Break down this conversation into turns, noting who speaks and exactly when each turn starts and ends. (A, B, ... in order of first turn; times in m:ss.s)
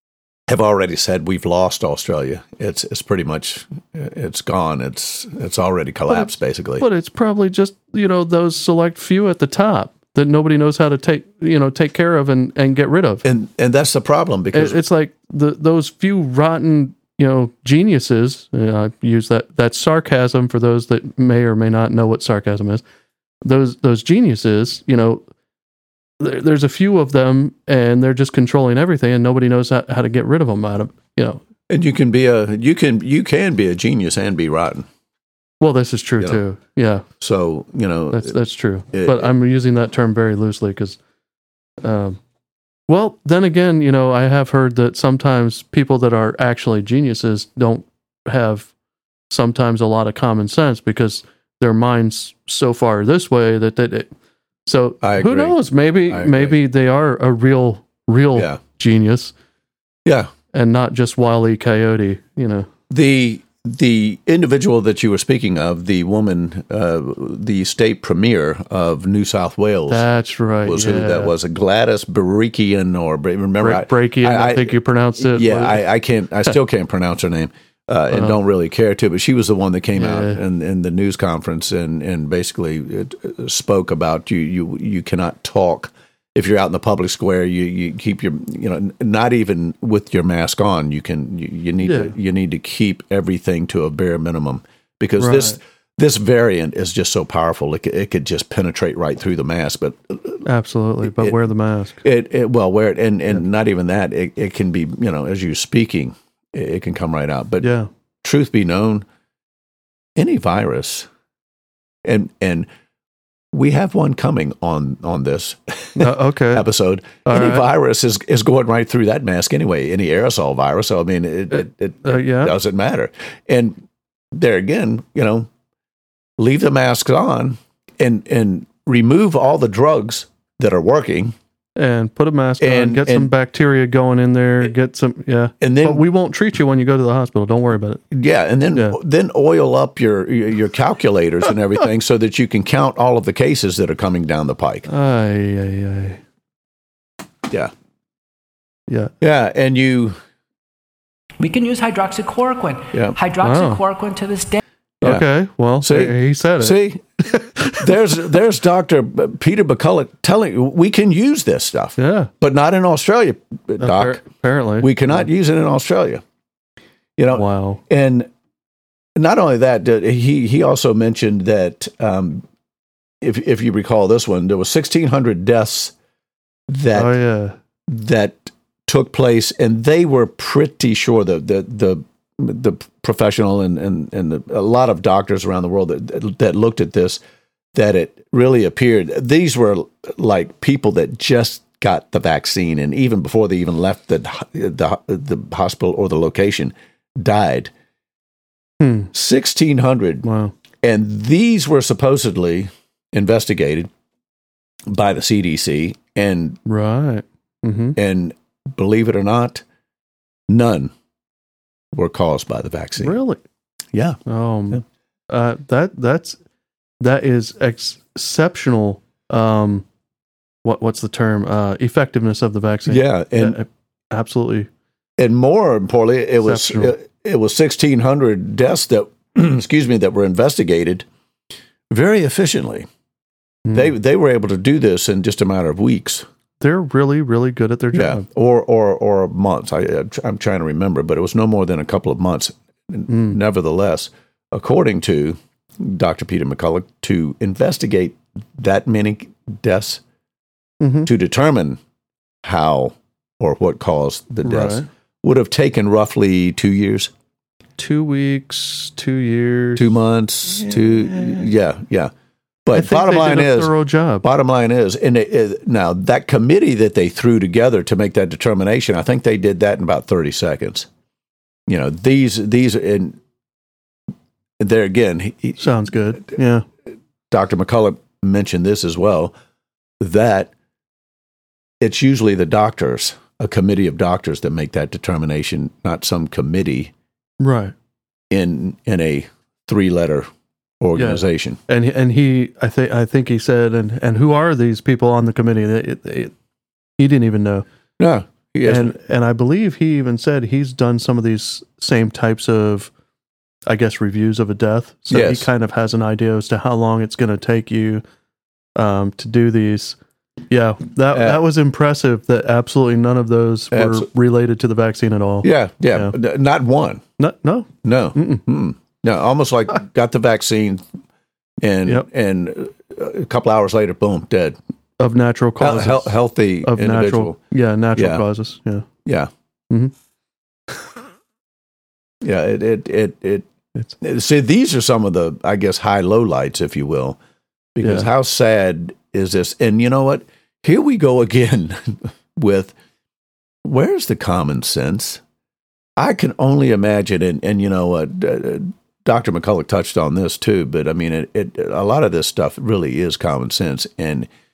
0:00.5-0:06.8 A
0:06.1-0:13.2 B
0:13.2-0:14.8 A
0:14.5-0:22.8 B
0:23.4-0:25.2 B
0:26.2-0:31.4 B
0:31.7-0:34.9 A
0:35.6-0:37.0 B
0:37.2-0:38.4 A
0:38.1-0:41.0 B
0:38.9-0:39.3 A
0:41.8-0:42.2 B
0:42.9-0:48.7 B
0:49.3-0:54.1 B
0:54.6-0:59.3 B
0:55.0-0:56.6 A
0:58.3-0:58.6 A
1:00.0-1:00.3 A
1:00.5-1:02.7 B
1:02.9-1:10.0 A
1:09.9-1:11.3 B
1:10.6-1:40.4 A
1:13.6-1:15.8 B
1:19.9-1:20.4 B
1:31.8-1:32.1 B
1:35.2-1:35.6 B
1:40.4-1:42.0 B
1:41.0-1:41.3 A
1:42.0-1:47.7 A
1:47.6-1:47.9 B
1:48.2-1:49.0 A
1:50.2-1:51.1 A
1:52.0-1:52.7 A
1:53.5-2:05.5 A
1:56.0-1:56.6 B
1:57.2-1:57.6 B
2:01.5-2:02.5 B
2:06.4-2:11.3 A
2:11.8-2:18.0 B
2:12.6-2:13.3 A
2:15.6-2:16.0 A
2:18.1-2:24.8 A
2:24.9-2:26.2 B
2:29.2-2:30.2 A
2:31.4-2:34.6 C
2:33.4-2:33.8 B
2:35.0-2:37.9 B
2:35.8-2:37.0 A
2:37.6-2:44.2 A
2:42.0-2:42.3 B
2:43.8-2:45.2 B
2:44.8-2:46.2 A
2:47.2-2:48.3 A
2:47.3-2:47.8 B
2:49.2-2:52.4 A
2:53.2-2:55.9 A
2:56.7-2:57.1 A
2:56.9-2:57.6 B
2:57.9-3:07.2 A
3:07.7-3:17.7 A
3:18.8-3:19.1 B
3:19.1-3:20.2 A
3:20.2-3:20.5 B
3:20.8-3:23.9 A
3:24.9-3:26.6 A
3:26.6-3:28.0 B
3:28.0-3:29.6 A
3:30.5-3:30.9 A
3:31.9-3:33.2 A
3:33.0-3:33.4 B
3:33.9-3:34.2 A
3:34.2-3:36.4 B
3:37.0-3:39.8 B
3:40.6-3:44.7 B
3:42.9-3:43.6 A
3:45.2-3:51.0 A
3:46.4-3:46.9 B
3:51.9-3:52.9 A
3:53.6-3:53.9 B
3:53.7-3:56.2 A
3:56.6-3:58.2 B
3:57.9-4:10.0 A
4:03.1-4:03.4 B
4:10.8-4:11.1 B
4:11.0-4:11.8 A
4:12.4-4:17.1 A
4:14.4-4:14.9 B
4:17.8-4:19.8 B
4:19.8-4:22.1 A
4:22.6-4:30.9 A
4:22.7-4:24.2 B
4:31.7-4:33.2 A
4:34.6-4:35.6 A
4:35.6-4:36.6 B
4:37.3-4:39.3 A
4:40.0-4:40.5 A
4:41.8-4:46.9 A
4:47.4-4:47.7 B
4:48.3-4:50.3 A
4:50.8-4:51.6 A
4:51.0-4:56.3 B
4:57.0-4:57.6 B
4:58.0-4:58.9 A
4:58.6-5:02.9 B
5:03.7-5:08.0 B
5:05.1-5:05.5 A
5:08.8-5:10.0 B
5:10.5-5:16.1 B
5:11.1-5:11.4 A
5:13.7-5:14.1 A
5:15.4-5:17.0 A
5:17.2-5:18.4 B
5:17.8-5:20.8 A
5:21.6-5:24.6 A
5:25.0-5:28.8 B
5:25.6-5:27.4 A
5:27.9-5:28.2 A
5:29.0-5:29.3 A
5:32.2-5:33.5 A
5:34.0-5:37.2 A
5:37.7-5:42.7 A
5:43.6-5:45.2 A
5:46.0-5:54.3 A